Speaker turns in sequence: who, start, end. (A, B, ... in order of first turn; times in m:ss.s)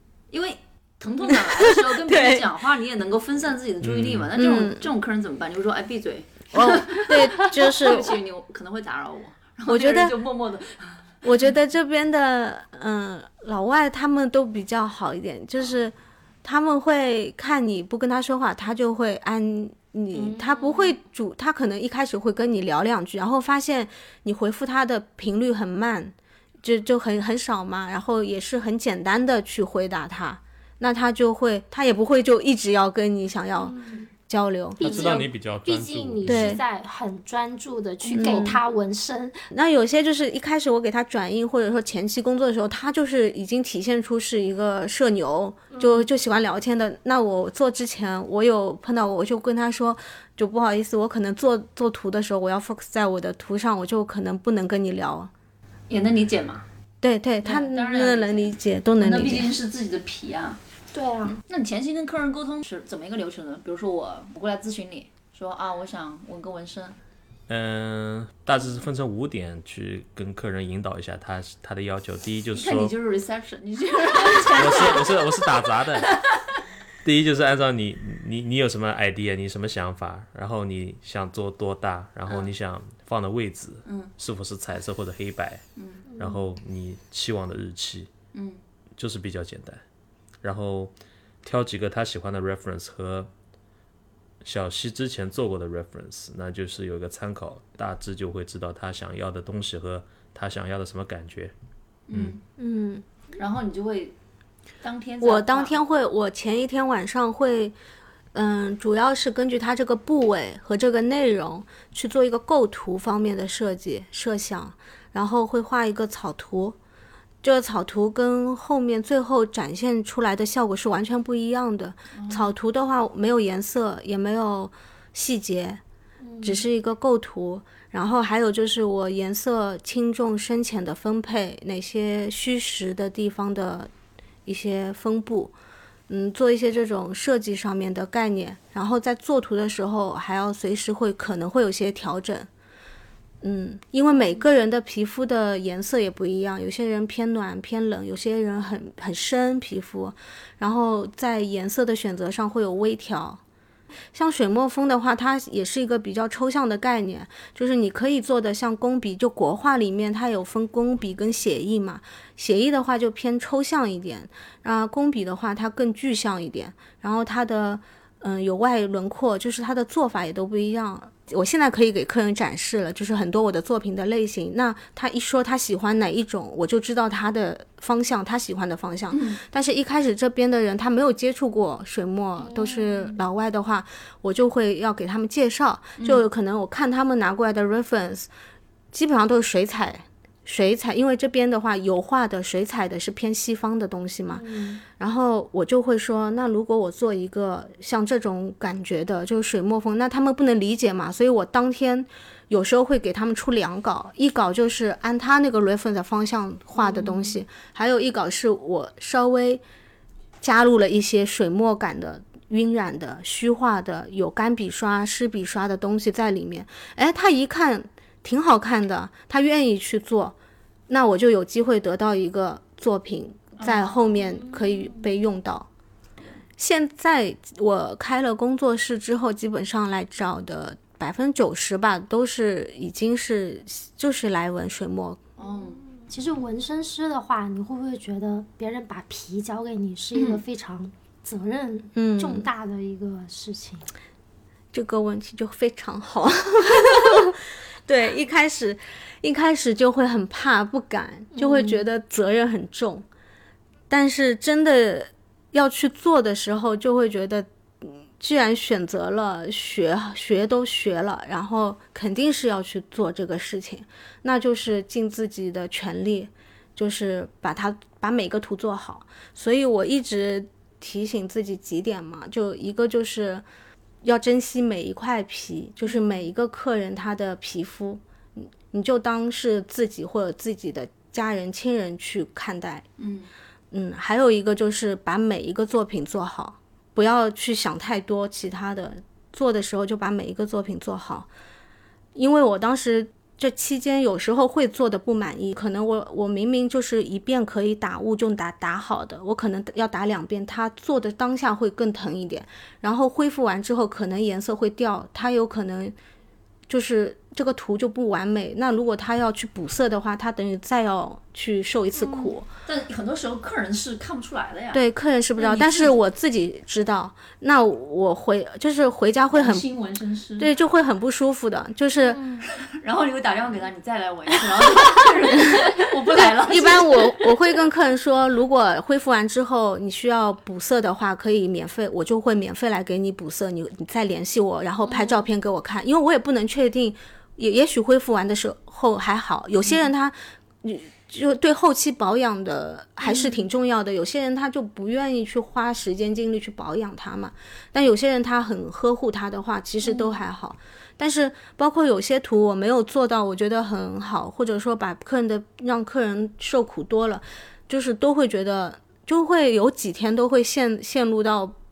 0:00.3-0:11.2 A
0:01.3-0:02.5 B
0:03.8-0:04.3 C
0:04.3-0:04.9 B
0:06.5-0:08.2 B
0:09.7-0:10.2 B
0:11.2-0:35.3 B
0:20.1-0:21.0 D
0:33.6-0:34.1 D
0:34.8-0:39.4 D
0:34.8-0:36.6 C
0:36.3-0:36.6 B
0:38.1-0:38.6 B
0:39.5-0:55.3 B
0:45.7-0:46.1 D
0:55.9-0:56.6 A
0:57.0-0:59.5 B
0:57.4-1:00.6 A
1:00.9-1:01.4 D
1:01.4-1:07.0 A
1:07.5-1:12.9 C
1:12.5-1:15.3 A
1:14.5-1:16.1 C
1:17.0-1:25.6 C
1:22.3-1:22.5 A
1:23.9-1:24.1 A
1:25.8-1:26.0 A
1:26.1-1:26.4 D
1:26.2-1:28.1 C
1:28.3-1:28.6 A
1:29.0-1:29.8 C
1:30.4-1:33.3 C
1:34.4-1:41.5 C
1:42.1-1:42.4 A
1:42.6-1:43.0 D
1:43.4-1:44.2 A
1:44.8-1:45.8 A
1:45.2-1:47.8 B
1:48.3-1:56.8 B
1:57.4-2:05.8 B
2:02.2-2:02.5 A
2:06.2-2:06.6 D
2:06.4-2:13.9 B
2:14.5-2:15.5 B
2:16.1-2:22.5 B
2:23.4-2:33.4 B
2:34.1-3:08.3 B
2:59.1-2:59.4 A
3:02.4-3:03.2 D
3:06.0-3:06.2 A
3:08.9-3:14.5 B
3:14.3-3:14.8 D
3:15.0-3:29.6 B
3:26.8-3:27.3 D
3:30.4-3:40.4 B
3:40.9-3:45.7 B
3:43.6-3:44.0 A
3:44.2-3:45.0 D
3:46.6-3:55.2 B
3:55.4-3:55.8 A
3:55.5-4:03.9 D
4:00.2-4:00.4 A
4:02.0-4:02.5 B
4:04.7-4:13.1 B
4:11.3-4:11.8 D
4:13.9-4:33.4 B
4:34.0-4:42.9 B
4:43.0-4:43.3 A
4:43.7-4:51.3 B
4:52.2-5:06.0 B
5:06.7-5:12.5 B
5:12.0-5:12.3 D
5:12.7-5:14.8 A
5:14.7-5:19.7 B
5:15.4-5:16.0 A
5:19.3-5:20.5 A
5:20.4-5:22.2 B
5:22.0-5:22.5 D
5:22.4-5:27.3 A
5:26.1-6:01.6 B
5:34.9-5:35.2 D
5:43.0-5:43.4 D
5:49.8-5:50.2 D